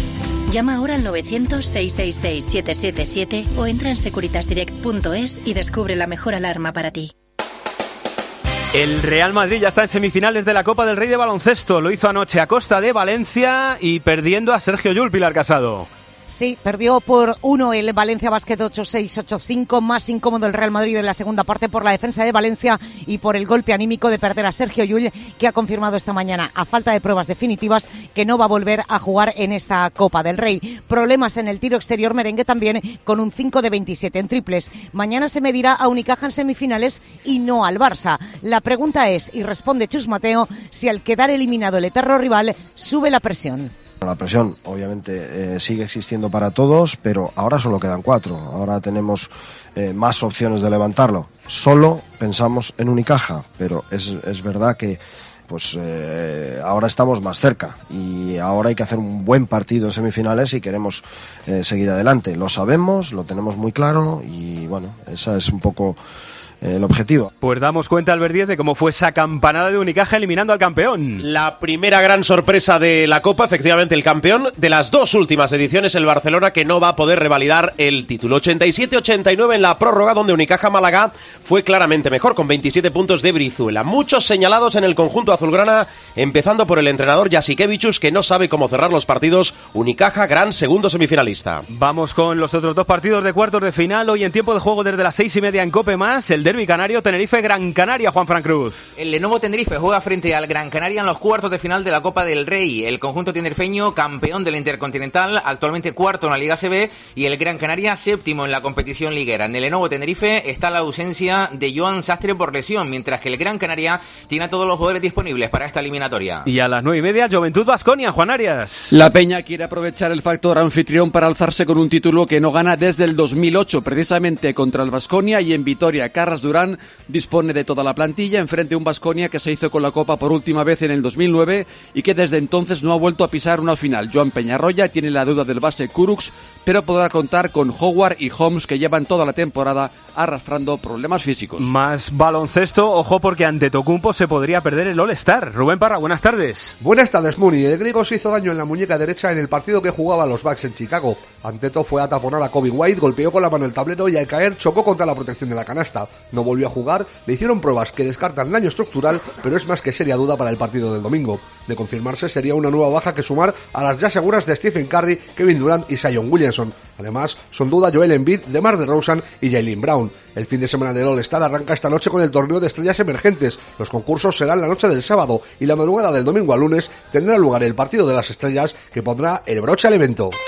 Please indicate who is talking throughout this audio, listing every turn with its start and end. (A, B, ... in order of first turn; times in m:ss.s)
0:00.5-0:07.1 A
0:08.7-0:15.9 B
0:16.3-0:43.7 C
0:44.0-1:06.0 D
1:06.6-1:07.3 D
1:07.4-1:11.2 B
1:11.4-1:31.6 E
1:31.7-1:38.9 B
1:39.0-1:56.4 F
1:56.4-1:58.9 B
1:58.9-2:21.7 G
2:21.6-2:26.8 B
2:26.8-3:00.4 H